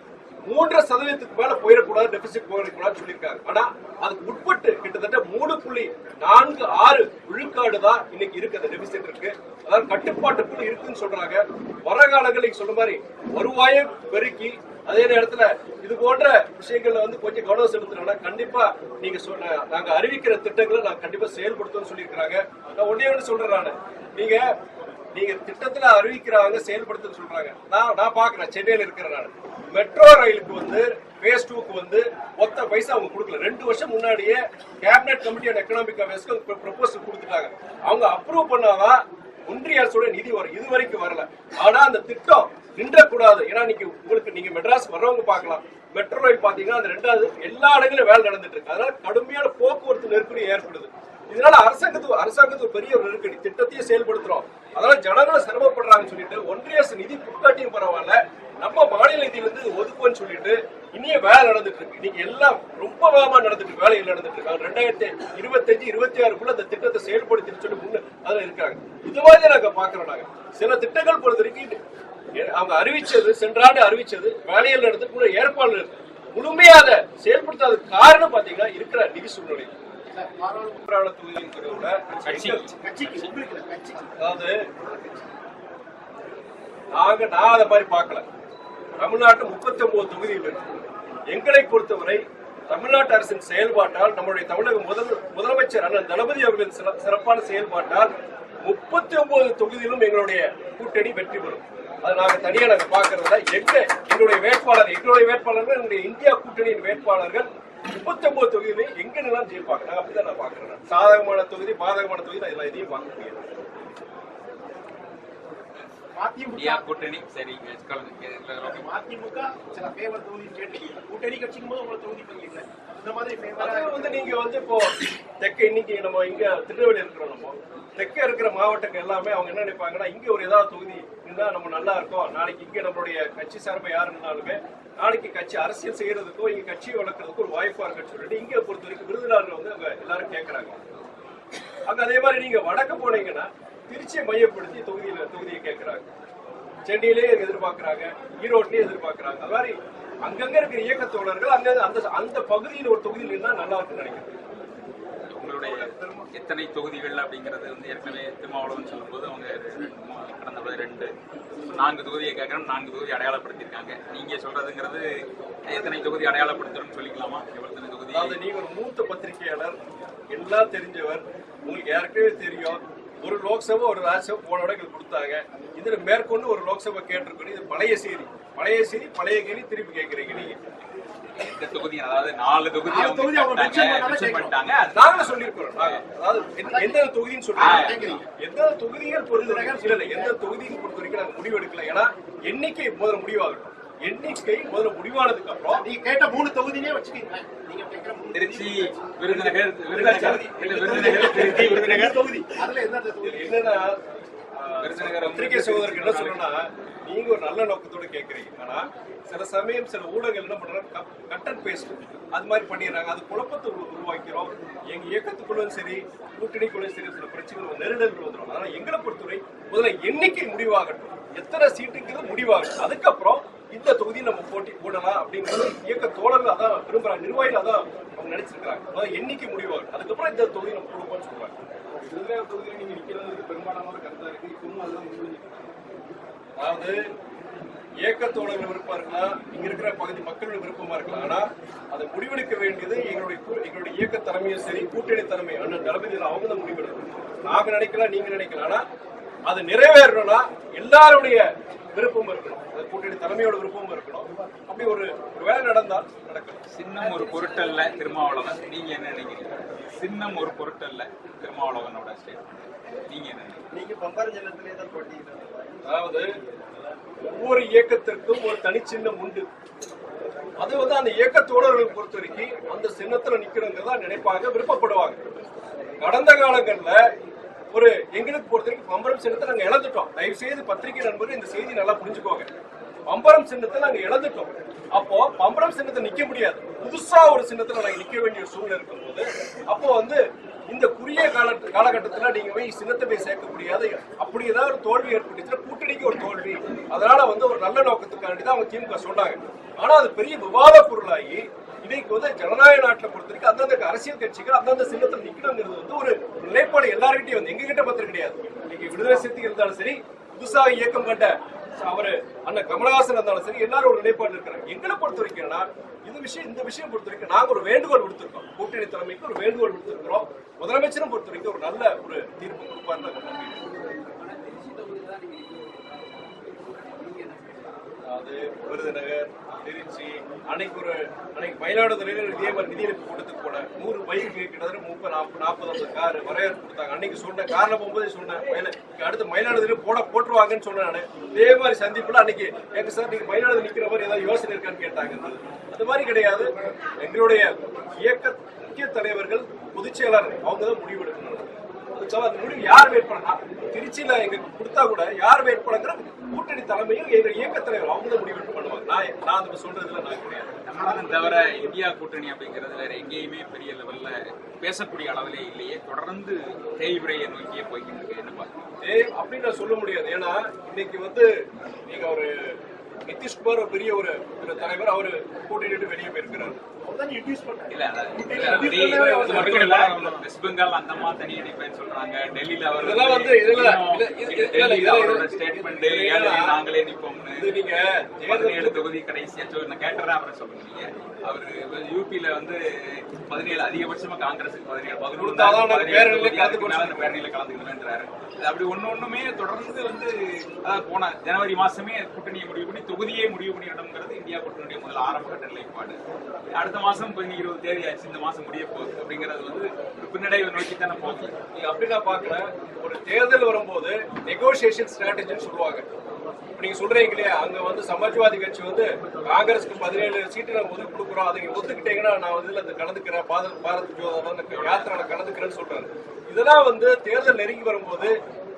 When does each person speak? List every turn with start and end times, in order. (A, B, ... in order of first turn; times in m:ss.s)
0:00.5-0:24.5 A
0:25.1-1:11.8 A
1:12.4-1:19.7 A
1:20.1-1:20.8 B
1:20.8-1:22.7 A
1:22.2-1:22.7 C
1:22.8-1:24.1 B
1:24.2-1:25.0 A
1:27.0-1:28.3 A
1:29.0-1:30.7 A
1:31.3-1:38.1 A
1:38.6-1:53.5 A
1:56.2-1:56.8 B
1:56.5-1:58.9 C
1:58.6-2:04.4 B
2:03.6-2:20.8 A
2:21.9-2:26.1 A
2:26.9-2:34.4 A
2:35.4-2:41.1 C
2:35.7-2:36.3 A
2:41.7-2:48.4 C
2:48.1-2:49.8 A
2:50.3-3:00.6 A
3:01.4-3:06.0 C
3:02.9-3:04.5 B
3:04.9-3:15.8 A
3:06.7-3:07.0 B
3:07.6-3:08.2 B
3:07.6-3:08.2 C
3:09.3-3:10.3 B
3:15.7-3:23.6 B
3:18.3-3:22.3 C
3:23.2-3:51.6 A
3:24.8-3:26.4 C
3:52.0-3:55.7 B
3:56.6-3:57.0 A
3:58.0-4:08.8 A
4:09.5-4:16.6 A
4:16.7-4:22.5 C
4:23.1-4:23.6 C
4:23.7-4:25.8 B
4:25.8-4:26.3 A
4:27.2-4:29.5 A
4:30.6-4:35.2 A
4:36.0-4:37.1 A
4:37.7-4:42.5 A
4:43.1-5:23.6 A
5:24.2-5:27.8 B
5:28.1-6:00.5 A
6:00.6-6:08.5 C
6:00.7-6:01.7 B
6:08.8-6:16.6 A
6:16.8-6:20.2 B
6:17.7-6:27.5 C
6:18.4-6:20.1 A
6:22.8-6:26.6 A
6:27.4-6:28.8 A
6:28.3-6:46.0 C
6:35.2-6:37.2 A
6:46.5-6:51.4 C
6:51.5-6:55.9 A
6:56.6-7:08.2 A
7:04.5-7:05.0 C